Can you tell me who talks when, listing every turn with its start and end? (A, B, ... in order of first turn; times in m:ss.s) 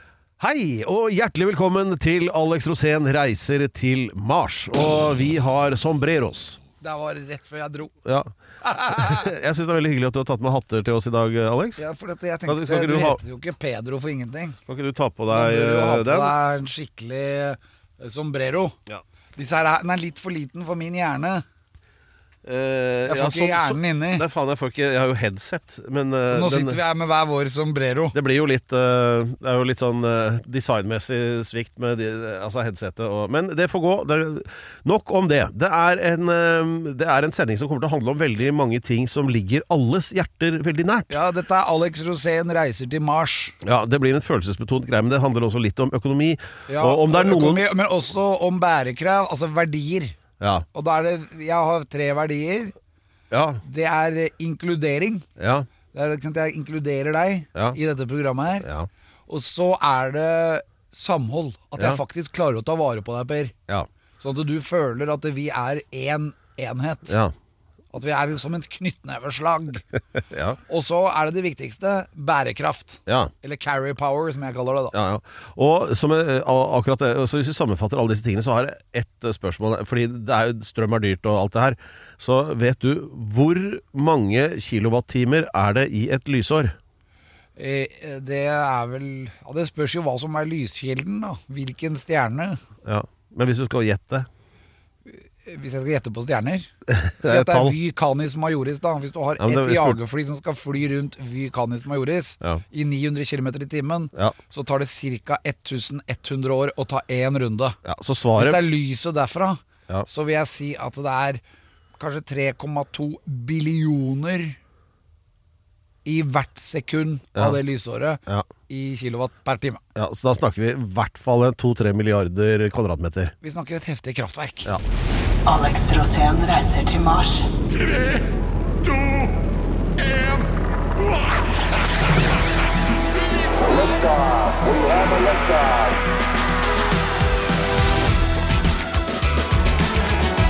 0:00.4-0:06.6 A
0:06.8-0:07.9 B
0:08.0-0:08.3 A
0:08.6-0:09.2 B
0:08.9-0:11.8 A
0:11.8-0:14.6 B
0:12.5-0:13.2 A
0:14.7-0:16.3 A
0:15.3-0:18.8 B
0:19.4-0:21.4 B
0:22.4-0:26.8 A
0:23.0-0:24.2 B
0:26.3-0:28.1 B
0:28.1-0:41.1 A
0:41.1-0:43.5 B
0:43.6-0:47.6 A
0:46.7-0:50.2 B
0:50.4-0:50.6 A
0:50.7-0:52.7 B
0:53.3-0:53.6 A
0:53.6-0:55.2 B
0:55.4-0:55.7 A
0:55.9-0:58.7 B
0:58.6-0:58.9 A
0:59.3-1:03.5 B
1:04.2-1:07.2 B
1:07.1-1:07.3 A
1:07.9-1:09.8 B
1:10.2-1:10.6 A
1:10.6-1:15.0 B
1:13.1-1:13.3 A
1:14.9-1:26.8 A
1:27.6-1:32.6 B
1:32.8-1:34.3 A
1:35.1-1:36.7 B
1:36.9-1:37.8 A
1:37.2-1:47.8 B
1:39.4-1:40.0 A
1:47.8-1:48.7 A
1:48.4-1:51.4 B
1:52.0-1:54.6 B
1:56.0-1:59.8 B
1:59.9-2:03.3 A
2:03.4-2:04.7 B
2:05.4-2:07.5 C
2:14.9-2:15.6 C